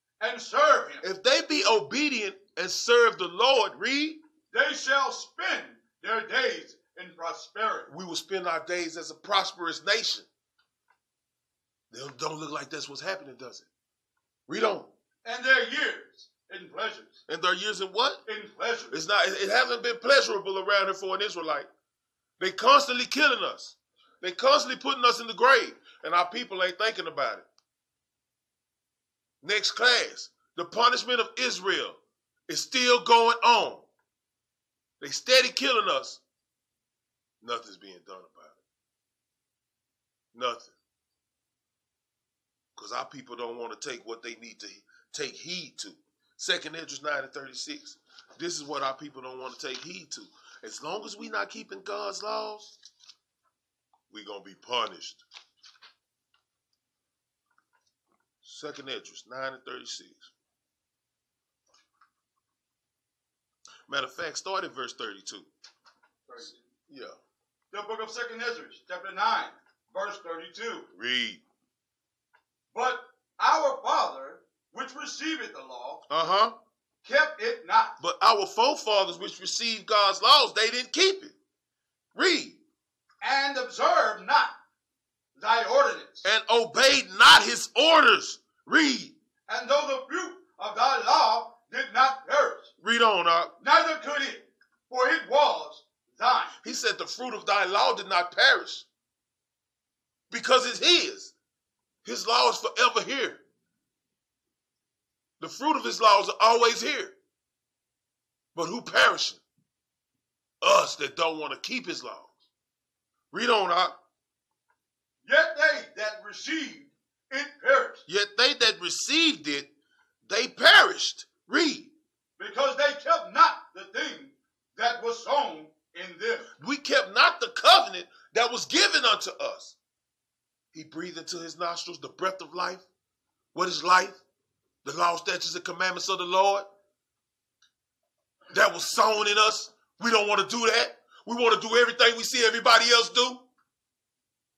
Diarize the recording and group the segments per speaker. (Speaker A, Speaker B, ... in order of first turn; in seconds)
Speaker A: 0.2-1.0, 4.5-7.9, 15.2-17.2, 18.3-18.9, 66.3-66.6, 67.7-70.9, 72.7-76.0, 77.0-78.0, 83.2-84.5, 85.4-86.3, 89.5-92.7, 93.6-96.5, 115.2-118.0, 122.4-126.4
Speaker B: 1.0-4.2, 7.9-10.3, 11.9-13.7, 14.5-14.9, 17.3-18.2, 18.9-21.7, 22.4-27.5, 29.4-33.9, 35.0-36.2, 37.4-38.6, 40.3-40.8, 42.8-52.8, 54.1-55.2, 58.4-60.3, 63.9-65.5, 66.9-67.2, 70.9-71.4, 76.1-76.5, 78.0-81.3, 82.2-82.6, 86.2-89.1, 92.8-93.5, 96.6-98.9, 100.3-101.3, 102.0-103.4, 105.4-107.1, 108.5-109.4, 110.6-112.3, 113.3-114.0, 118.1-119.7, 120.2-121.9, 126.6-129.8, 130.7-132.9, 133.5-134.2, 134.8-136.7, 138.5-143.4